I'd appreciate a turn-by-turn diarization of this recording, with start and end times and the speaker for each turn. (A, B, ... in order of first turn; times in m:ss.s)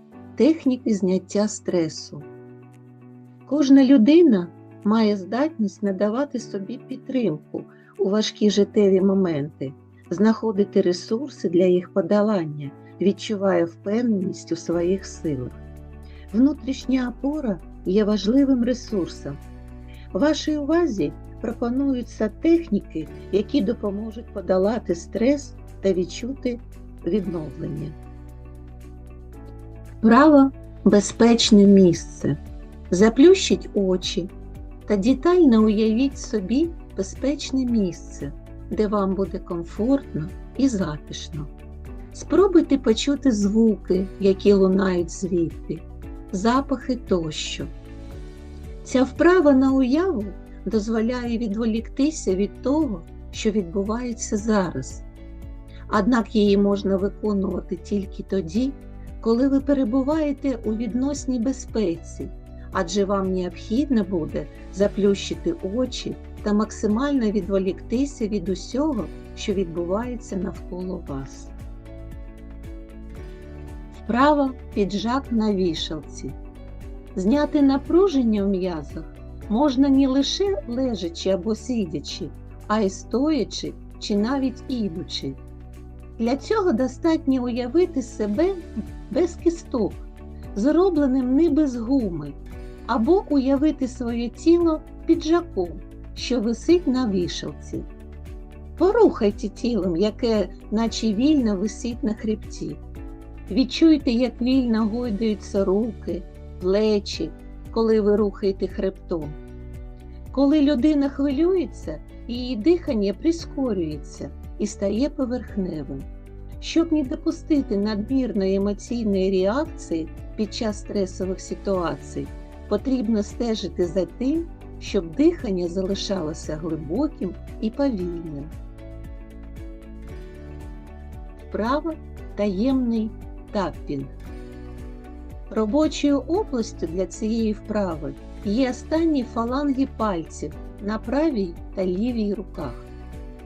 0:00.4-0:02.3 A
0:03.5-0:15.6 A
0:16.3-0:19.4 A
0:20.1-0:28.0 A
0:30.0-0:32.4 A
0:32.9-0:34.3 A
0:34.9-0:41.5 A
0:42.1-0:47.7 A
0:48.8-0:55.0 A
0:55.9-1:11.5 A
1:14.0-1:16.4 A
1:17.2-1:25.4 A
1:26.2-1:30.0 A
1:30.5-1:37.9 A
1:38.8-1:42.8 A
1:43.5-1:49.4 A
1:50.3-1:56.1 A
1:56.6-2:08.5 A
2:11.5-2:14.2 A
2:15.5-2:22.9 A